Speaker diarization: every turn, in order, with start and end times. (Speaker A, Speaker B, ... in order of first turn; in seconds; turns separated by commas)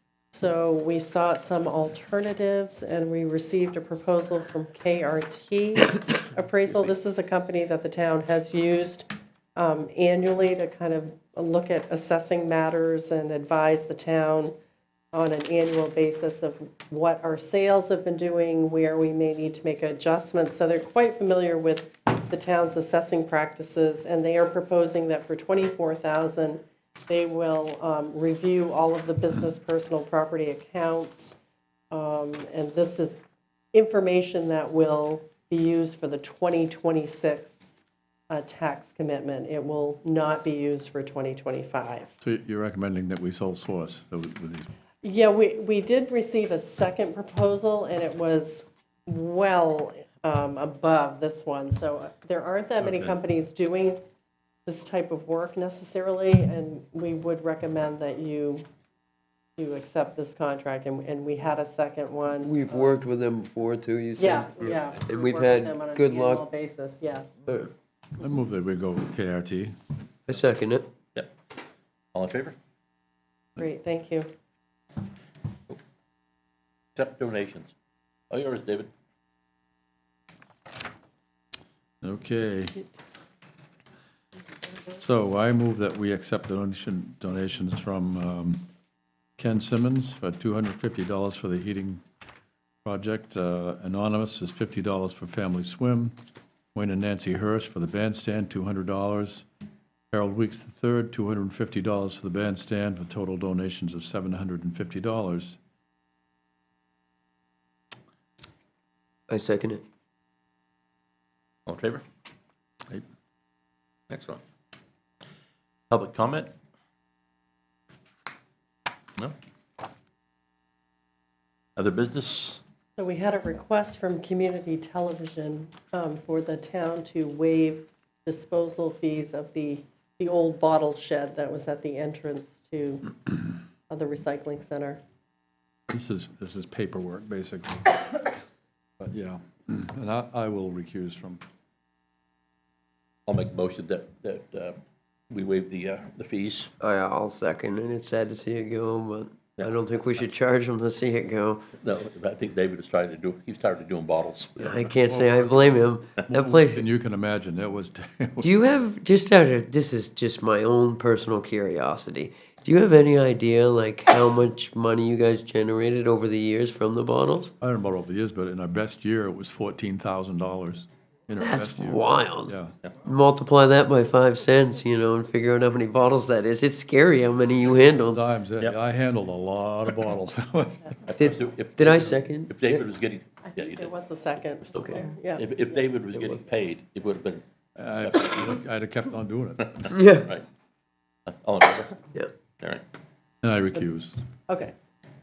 Speaker A: 0.3-14.5, Speaker A: 15.1-31.4, Speaker A: 31.9-33.2, Speaker A: 33.7-37.6, Speaker A: 38.3-42.1, Speaker B: 42.2-44.7, Speaker A: 45.0-54.0, Speaker A: 54.7-58.7, Speaker A: 59.6-63.0, Speaker C: 62.4-66.4, Speaker A: 64.2-67.4, Speaker B: 68.2-69.7, Speaker C: 70.3-70.9, Speaker D: 72.1-72.5, Speaker A: 73.6-74.3, Speaker D: 77.0-77.7, Speaker D: 78.3-78.9, Speaker B: 82.0-82.8, Speaker B: 85.0-88.6, Speaker B: 89.4-92.0, Speaker B: 92.8-96.2, Speaker B: 96.7-99.5, Speaker B: 100.1-105.6, Speaker C: 109.3-109.8, Speaker D: 111.7-112.0, Speaker D: 114.1-114.4, Speaker D: 115.9-116.5, Speaker D: 121.8-122.6, Speaker A: 123.0-133.1, Speaker A: 133.9-135.0, Speaker B: 135.9-138.3, Speaker B: 139.0-141.4, Speaker D: 143.3-144.8, Speaker D: 145.3-146.7, Speaker C: 146.8-151.7, Speaker D: 151.8-154.8, Speaker C: 154.6-156.8, Speaker B: 155.1-155.7, Speaker B: 156.3-158.5, Speaker C: 158.4-167.5, Speaker B: 167.6-172.7, Speaker C: 171.4-178.2, Speaker B: 178.1-180.8, Speaker D: 181.1-183.9, Speaker C: 181.2-182.8, Speaker A: 183.4-185.5, Speaker D: 184.7-187.4, Speaker B: 187.8-189.8, Speaker D: 188.0-188.6, Speaker C: 189.9-190.3, Speaker D: 190.2-190.4, Speaker D: 191.3-192.0, Speaker B: 193.4-194.2, Speaker A: 194.5-194.7